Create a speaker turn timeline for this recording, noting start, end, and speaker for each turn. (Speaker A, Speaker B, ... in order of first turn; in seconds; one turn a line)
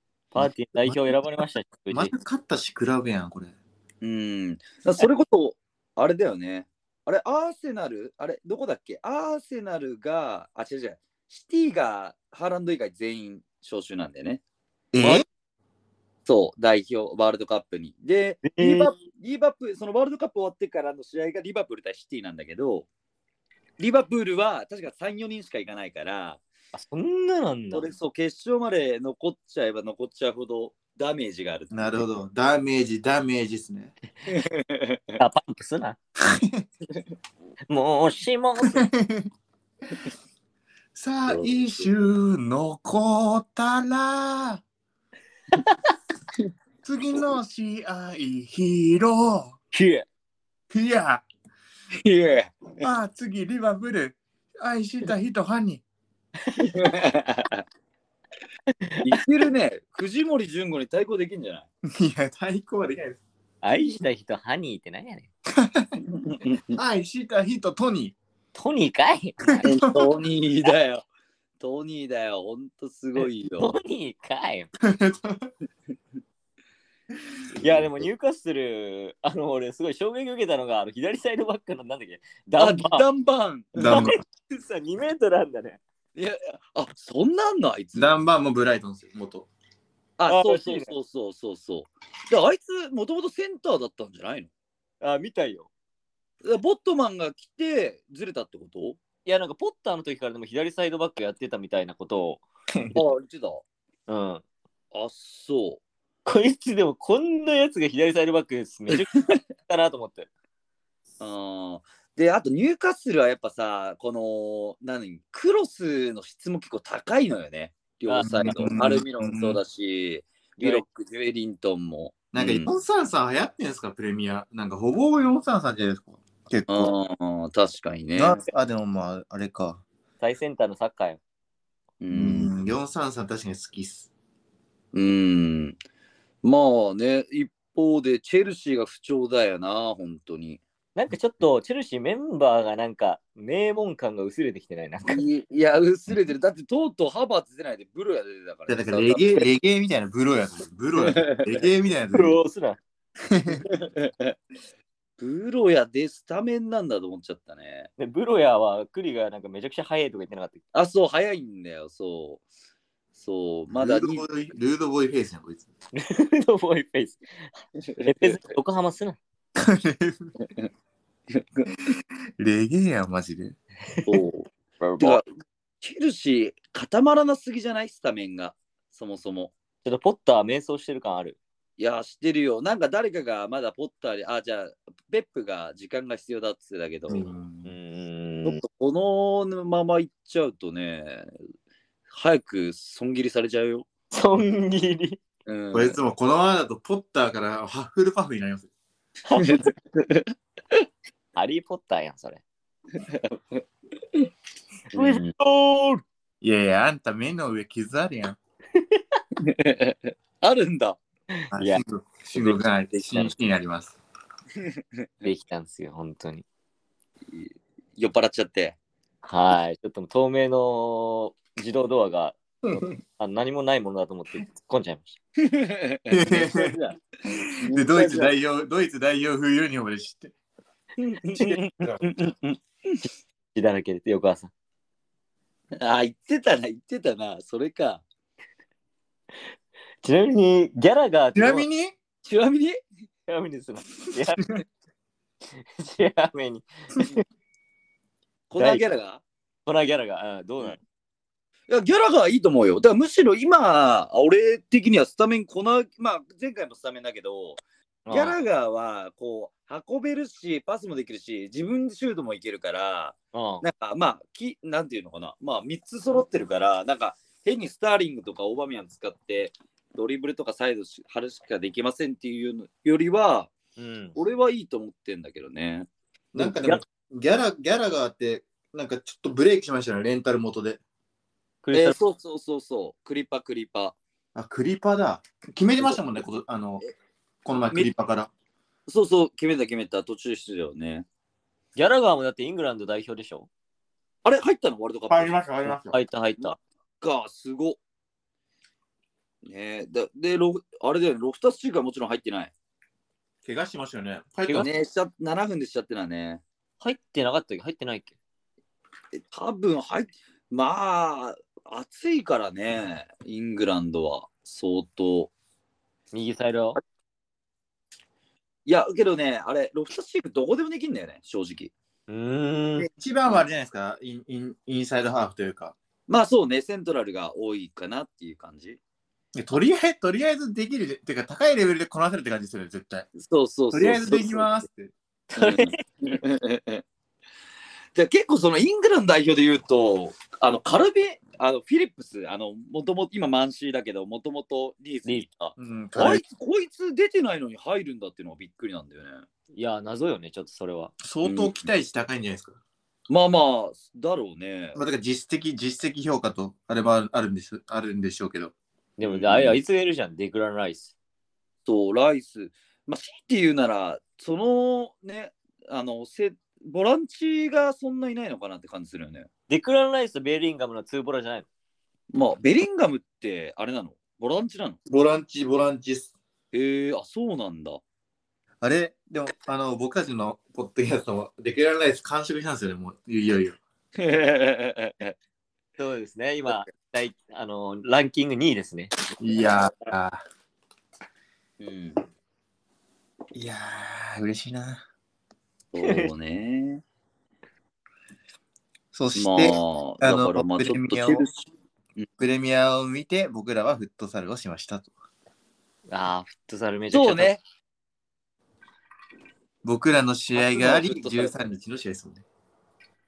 Speaker A: 0.3-2.1
Speaker B: 0.3-1.1
Speaker B: 1.9-3.5
Speaker C: 4.0-14.4
Speaker B: 14.9-15.2
Speaker C: 16.2-22.9
Speaker A: 18.4-18.9
Speaker C: 23.8-26.4
Speaker A: 26.7-27.9
Speaker C: 27.7-32.0
Speaker B: 31.7-33.9
Speaker C: 34.3-35.2
Speaker A: 35.2-36.0
Speaker B: 36.2-36.6
Speaker A: 37.7-38.9
Speaker B: 38.6-39.3
Speaker B: 40.9-44.6
Speaker C: 41.3-41.9
Speaker B: 46.8-49.6
Speaker A: 49.7-50.0
Speaker B: 50.7-51.2
Speaker C: 52.0-52.9
Speaker B: 52.8-55.8
Speaker A: 56.4-56.7
Speaker C: 56.6-57.6
Speaker A: 58.8-59.1
Speaker C: 59.0-61.7
Speaker B: 61.9-63.2
Speaker A: 63.6-65.3
Speaker B: 65.5-66.0
Speaker C: 66.0-66.8
Speaker B: 66.7-68.2
Speaker A: 68.5-69.7
Speaker B: 69.5-70.1
Speaker C: 69.6-71.0
Speaker C: 71.6-73.8
Speaker A: 73.6-74.7
Speaker B: 74.8-75.5
Speaker A: 77.6-83.0
Speaker C: 82.6-84.0
Speaker B: 83.7-84.2
Speaker A: 83.8-85.8
Speaker C: 86.1-88.2
Speaker B: 87.9-89.5
Speaker C: 90.2-94.5
Speaker A: 90.3-90.9
Speaker A: 95.0-95.7
Speaker C: 96.4-99.0
Speaker A: 99.2-102.4
Speaker B: 102.7-103.0
Speaker C: 102.9-103.6
Speaker A: 104.1-104.4
Speaker C: 104.9-105.8
Speaker A: 106.2-110.3
Speaker C: 109.0-109.3
Speaker C: 111.2-122.7
Speaker A: 118.1-118.8
Speaker B: 118.2-119.6
Speaker B: 122.3-126.9
Speaker C: 126.7-128.4
Speaker B: 128.1-129.8
Speaker A: 130.2-131.2
Speaker C: 132.0-132.5
Speaker B: 132.1-134.1
Speaker C: 134.9-135.8
Speaker C: 136.4-140.6
Speaker A: 140.9-145.2
Speaker C: 145.1-149.5
Speaker B: 148.7-152.4
Speaker C: 150.9-151.6
Speaker A: 152.1-152.8
Speaker B: 153.2-153.6
Speaker C: 153.6-154.3
Speaker C: 155.2-157.9
Speaker A: 158.0-160.6
Speaker C: 160.7-162.4
Speaker C: 163.1-164.2
Speaker B: 163.7-165.7
Speaker A: 165.9-167.5
Speaker C: 167.8-168.4
Speaker A: 168.0-169.2
Speaker B: 169.6-170.3
Speaker C: 170.4-170.7
Speaker C: 171.3-171.9
Speaker B: 172.4-173.6
Speaker C: 174.1-175.2
Speaker A: 174.8-175.2
Speaker C: 175.8-179.5
Speaker A: 179.8-181.4
Speaker C: 181.8-187.3
Speaker B: 187.1-187.6
Speaker A: 187.6-188.6
Speaker C: 188.4-191.3
Speaker C: 192.1-193.9
Speaker A: 194.1-195.2
Speaker C: 195.4-196.0
Speaker B: 195.7-198.7
Speaker A: 199.3-199.6
Speaker C: 199.3-200.3
Speaker A: 201.3-202.4
Speaker C: 202.9-203.6
Speaker C: 204.9-205.3
Speaker A: 204.9-206.0
Speaker B: 206.4-208.4
Speaker A: 208.7-209.2
Speaker C: 209.4-211.0
Speaker A: 211.3-211.8
Speaker B: 211.5-213.9
Speaker C: 214.6-215.3
Speaker A: 215.2-216.4
Speaker C: 217.3-218.8
Speaker A: 219.2-225.2
Speaker C: 225.4-228.3
Speaker B: 226.1-230.3
Speaker C: 231.0-233.0
Speaker B: 231.3-232.1
Speaker A: 233.5-234.5
Speaker C: 235.8-238.0
Speaker A: 240.0-241.7
Speaker B: 241.3-241.9
Speaker C: 242.2-242.8
Speaker A: 243.3-244.4
Speaker A: 245.5-247.2
Speaker C: 248.5-249.2
Speaker A: 248.6-248.8
Speaker A: 249.7-250.8
Speaker C: 251.7-273.5
Speaker A: 258.1-258.4
Speaker A: 263.3-263.6
Speaker A: 273.8-274.2
Speaker C: 274.1-275.9
Speaker B: 276.3-280.8
Speaker A: 276.4-276.8
Speaker A: 281.6-282.0
Speaker C: 281.7-284.0
Speaker B: 284.3-286.8
Speaker C: 285.8-286.1
Speaker B: 287.4-288.3
Speaker C: 288.9-291.1
Speaker A: 291.8-293.5
Speaker C: 294.2-295.4
Speaker B: 295.1-296.0
Speaker A: 295.9-296.6
Speaker C: 296.4-297.8
Speaker C: 299.4-302.5
Speaker B: 303.4-304.7
Speaker C: 304.6-306.4
Speaker A: 306.8-308.1
Speaker C: 309.1-315.3
Speaker A: 316.1-316.8
Speaker C: 318.6-321.7
Speaker A: 322.1-322.9
Speaker B: 322.8-325.8
Speaker C: 326.1-328.8
Speaker B: 329.3-333.1
Speaker C: 333.1-334.6
Speaker B: 333.7-334.9
Speaker A: 335.3-335.8
Speaker C: 335.4-336.8
Speaker C: 337.9-349.2
Speaker B: 345.6-346.2
Speaker A: 349.5-350.9
Speaker B: 351.0-352.6
Speaker C: 351.2-351.5
Speaker C: 353.1-354.8
Speaker B: 354.7-358.5
Speaker A: 359.0-360.9
Speaker C: 359.0-359.6
Speaker C: 361.6-369.3
Speaker A: 369.5-371.4
Speaker C: 372.1-374.8
Speaker B: 374.9-376.1
Speaker C: 376.5-377.8
Speaker B: 378.6-383.6
Speaker C: 384.0-385.1
Speaker A: 385.8-388.9
Speaker B: 389.2-390.2
Speaker C: 391.6-392.0
Speaker B: 393.3-394.8
Speaker C: 395.7-396.8
Speaker A: 395.8-396.1
Speaker B: 398.9-401.2
Speaker C: 399.1-401.4
Speaker B: 402.2-404.9
Speaker A: 405.9-407.3
Speaker C: 406.9-407.4
Speaker B: 409.6-412.2
Speaker C: 410.4-411.4